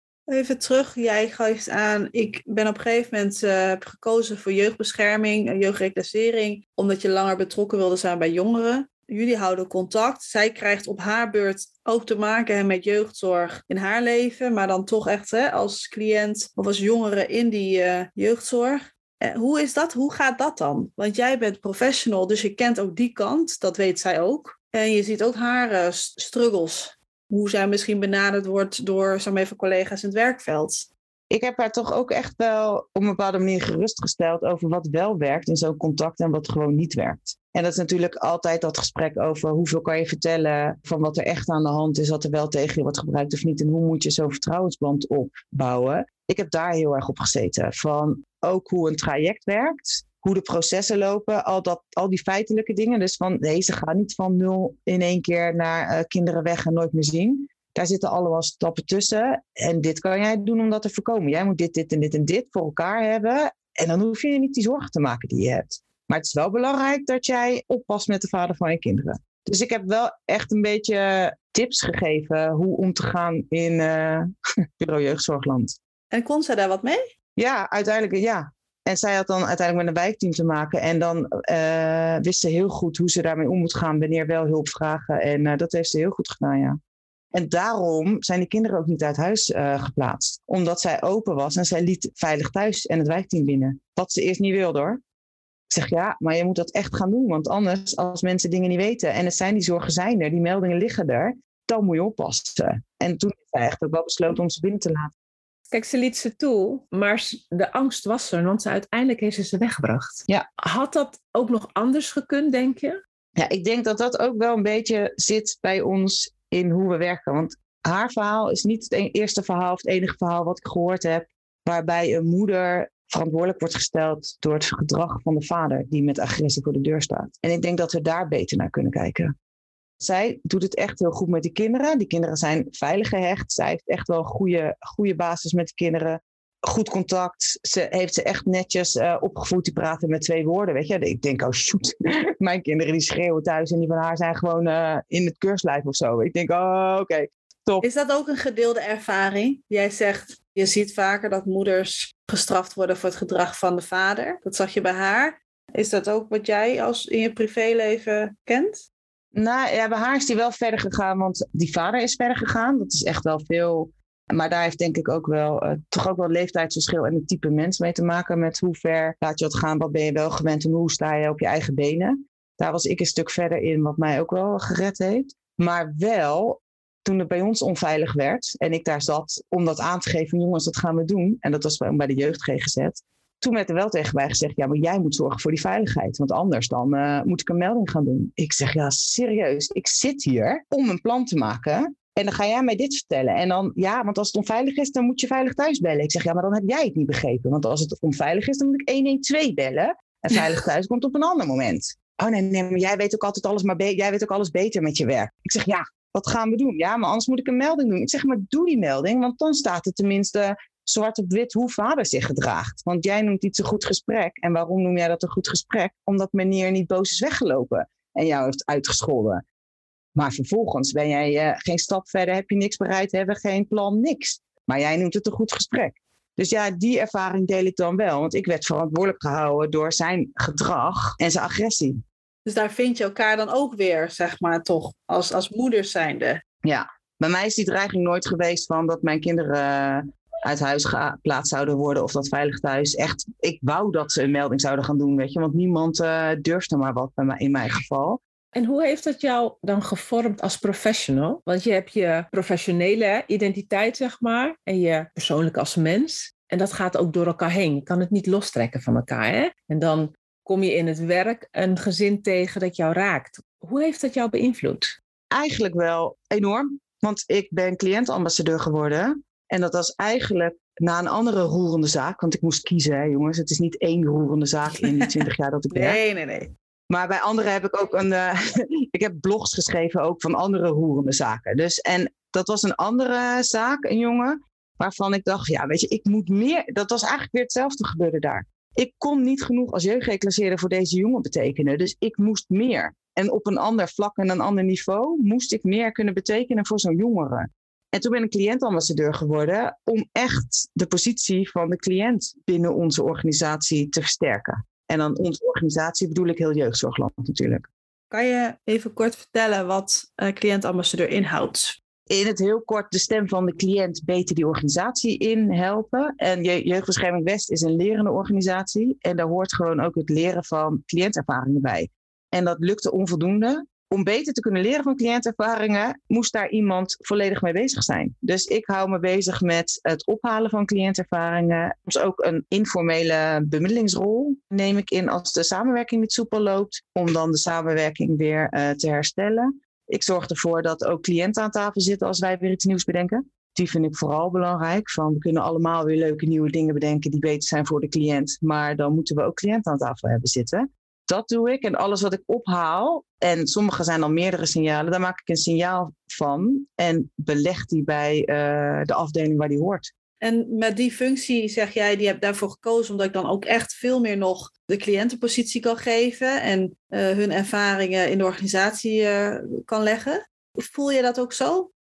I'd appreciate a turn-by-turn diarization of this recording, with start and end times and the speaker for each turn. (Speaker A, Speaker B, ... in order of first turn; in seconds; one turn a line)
Speaker A: 0.3-30.9
Speaker B: 31.3-74.3
Speaker B: 74.8-75.8
Speaker A: 76.1-77.0
Speaker B: 77.4-86.8
Speaker B: 87.3-95.0
Speaker B: 95.7-105.1
Speaker C: 105.7-113.0
Speaker B: 113.4-129.3
Speaker B: 130.0-147.8
Speaker A: 147.8-158.8
Speaker B: 159.3-219.4
Speaker B: 220.2-232.0
Speaker A: 232.5-236.4
Speaker B: 236.6-248.2
Speaker C: 248.5-265.0
Speaker B: 265.3-276.0
Speaker A: 275.7-276.5
Speaker B: 276.9-307.7
Speaker A: 308.1-311.8
Speaker B: 312.1-359.9
Speaker A: 360.2-371.7